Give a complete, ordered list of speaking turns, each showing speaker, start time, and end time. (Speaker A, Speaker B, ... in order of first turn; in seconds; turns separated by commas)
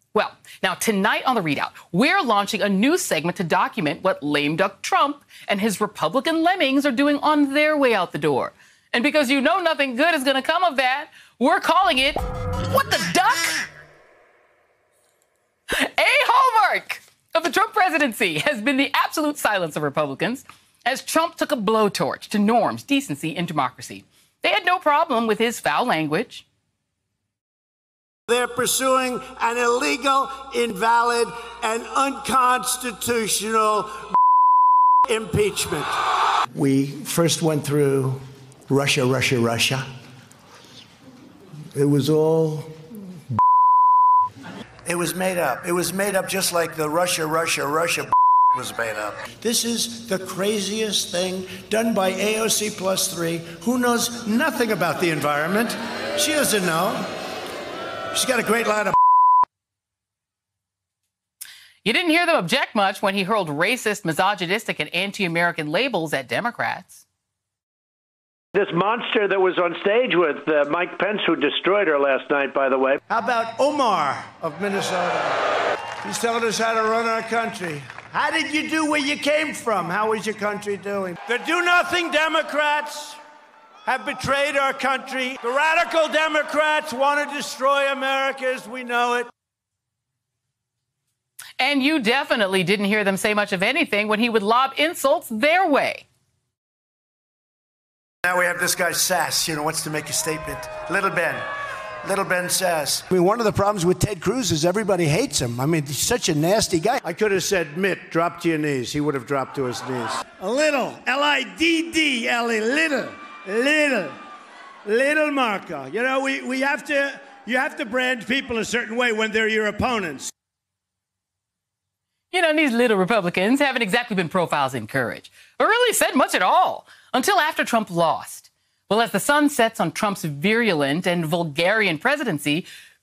Speaker A: 0.1-13.7, Speaker A: 15.7-26.4, Speaker B: 28.3-33.9, Speaker B: 35.1-35.9, Speaker B: 36.5-39.9, Speaker B: 41.7-42.7, Speaker B: 44.9-57.1, Speaker B: 58.1-59.0, Speaker A: 61.8-67.0, Speaker C: 68.5-73.0, Speaker B: 73.1-75.4, Speaker B: 76.0-83.2, Speaker B: 83.9-89.3, Speaker A: 91.6-96.0, Speaker B: 98.2-101.4, Speaker B: 102.0-114.2, Speaker B: 114.8-120.3, Speaker A: 122.3-132.7